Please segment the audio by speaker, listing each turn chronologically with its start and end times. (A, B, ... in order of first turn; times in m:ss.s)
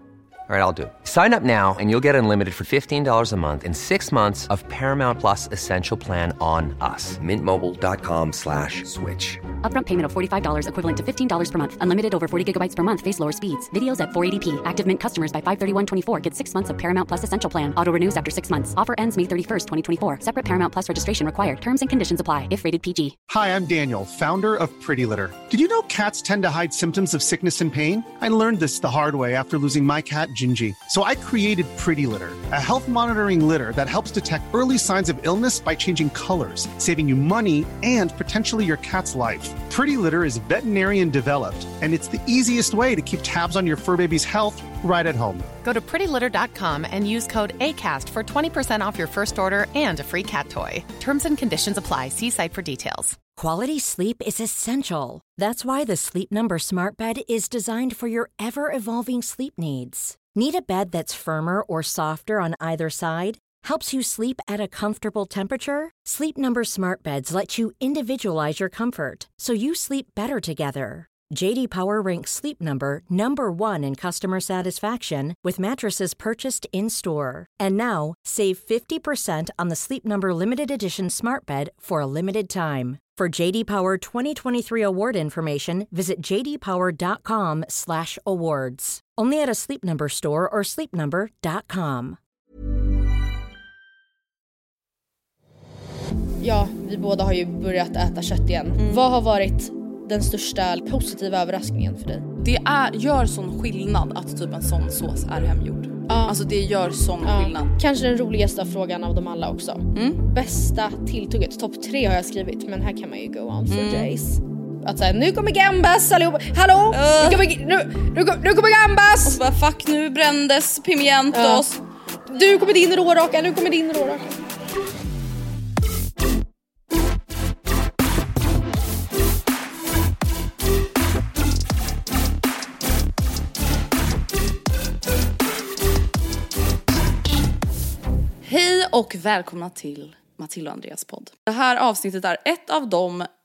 0:00.5-0:09.4 A
0:09.6-0:23.2 B
0:23.3-0:45.5 C
0:45.7-0:53.2 D
0:53.4-1:32.2 E
1:36.4-1:42.3 F
1:42.4-1:47.7 G
1:46.1-1:46.4 F
1:47.2-1:59.4 F
1:49.9-1:50.2 G
1:53.7-1:54.1 G
1:56.9-1:57.4 G
1:59.2-2:01.8 G
2:01.3-2:01.7 F
2:02.3-2:04.4 F
2:18.4-2:23.3 G